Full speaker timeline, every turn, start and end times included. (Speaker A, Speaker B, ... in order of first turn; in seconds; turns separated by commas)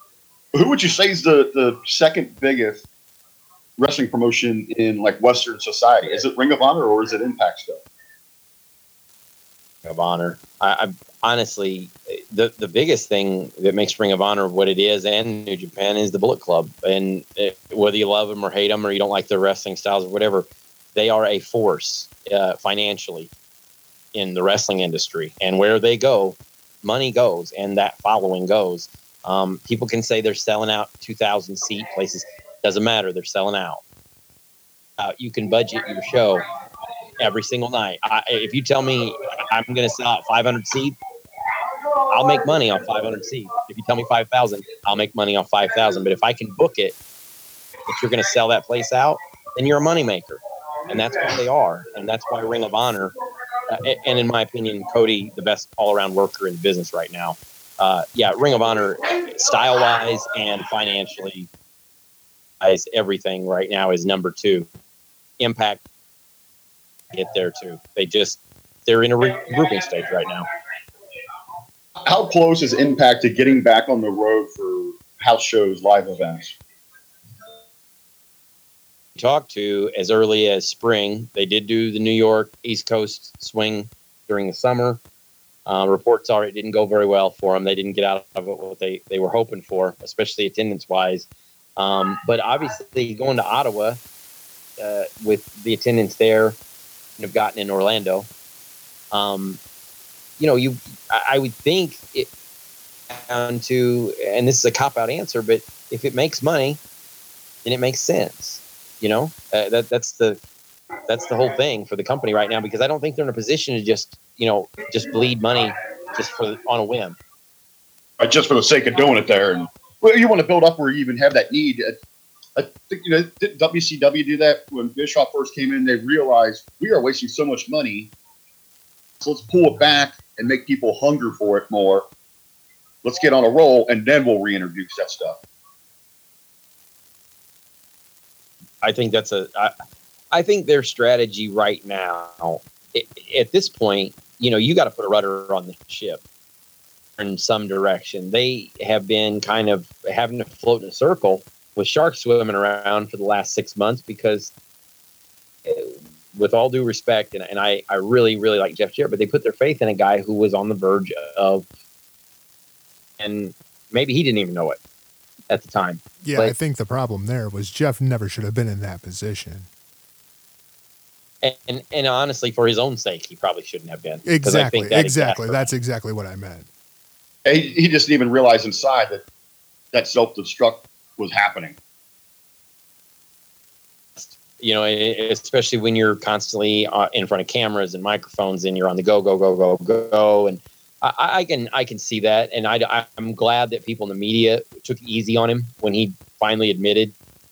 Speaker A: 0.5-2.9, Speaker A: 3.8-7.8, Speaker B: 9.8-23.3, Speaker B: 24.1-33.8, Speaker B: 35.0-36.4, Speaker B: 37.2-41.0, Speaker B: 42.0-47.0, Speaker B: 47.9-53.1, Speaker B: 53.7-61.5, Speaker B: 62.6-64.7, Speaker B: 65.4-65.8, Speaker B: 67.1-70.5, Speaker A: 72.0-76.6, Speaker B: 79.2-85.0, Speaker B: 85.7-91.3, Speaker B: 91.8-94.0, Speaker B: 94.8-96.6, Speaker B: 97.2-98.3, Speaker B: 99.1-99.6, Speaker B: 100.4-102.3, Speaker B: 103.1-106.8, Speaker B: 107.7-110.4, Speaker B: 111.1-117.2, Speaker A: 118.2-122.0, Speaker A: 122.6-128.1, Speaker A: 129.2-132.1, Speaker A: 133.0-135.4, Speaker B: 138.8-139.7, Speaker B: 140.3-146.2, Speaker B: 147.2-154.5, Speaker B: 155.7-161.7, Speaker B: 163.2-164.8, Speaker B: 165.5-166.5, Speaker C: 166.2-169.7, Speaker B: 171.4-175.7, Speaker C: 174.2-176.7, Speaker A: 177.4-179.2, Speaker A: 179.9-181.8, Speaker B: 184.2-197.1